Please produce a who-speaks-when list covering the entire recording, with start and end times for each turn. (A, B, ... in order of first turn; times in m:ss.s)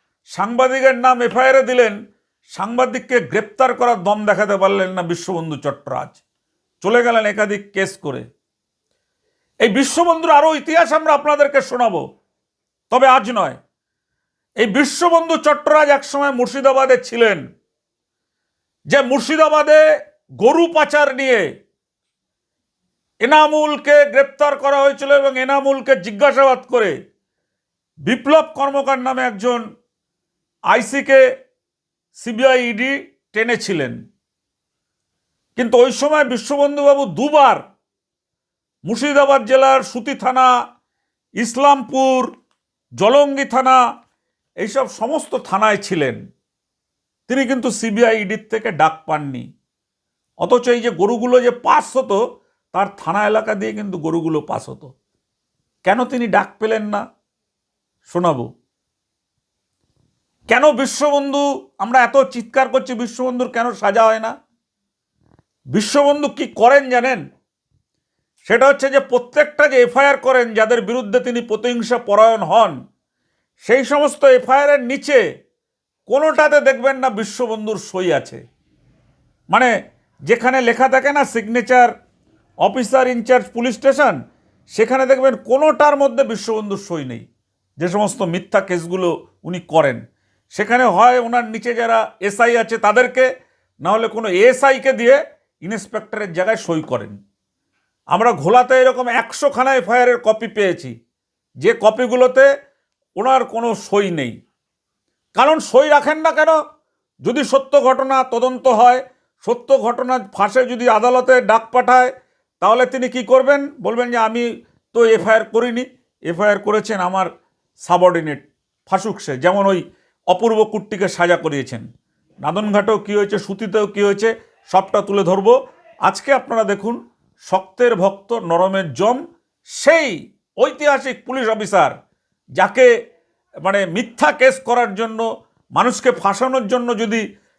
0:00.4-0:02.0 A
0:02.6-0:06.2 A
0:06.8-0:08.3 A
0:09.6-0:12.0 A
0:12.9-0:13.6 A
0:14.6-0:17.5 A
0:18.9-0:19.8 A
0:20.4-0:21.5 A
0:23.2-0:27.0 A
0:28.1-0:29.6 A
0:30.7-0:31.2 A
0:32.2-0:34.0 A
0:35.6-0:37.6 A
0:38.9-0:40.5 A
0:41.4-0:42.3 A
0:43.0-0:43.8 A
0:44.6-0:46.2 A
0:47.3-0:49.5 A
0:50.4-0:52.2 A
0:52.7-0:54.9 A
0:55.9-0:57.0 A
0:58.1-0:58.5 A
1:00.5-1:04.3 A
1:05.7-1:07.2 A
1:08.5-1:12.8 A
1:13.6-1:15.2 A
1:16.1-1:18.4 A
1:20.3-1:21.9 A
1:22.6-1:24.2 A
1:24.7-1:27.3 A
1:27.8-1:30.0 A
1:30.6-1:33.3 A
1:33.8-1:37.2 A
1:38.1-1:40.9 A
1:41.6-1:42.5 A
1:43.2-1:44.4 A
1:45.4-1:46.6 A
1:47.2-1:57.3 A
1:57.8-2:01.9 A
2:02.4-2:09.2 A
2:09.8-2:12.0 A
2:12.6-2:12.9 A
2:13.6-2:15.3 A
2:15.8-2:17.2 A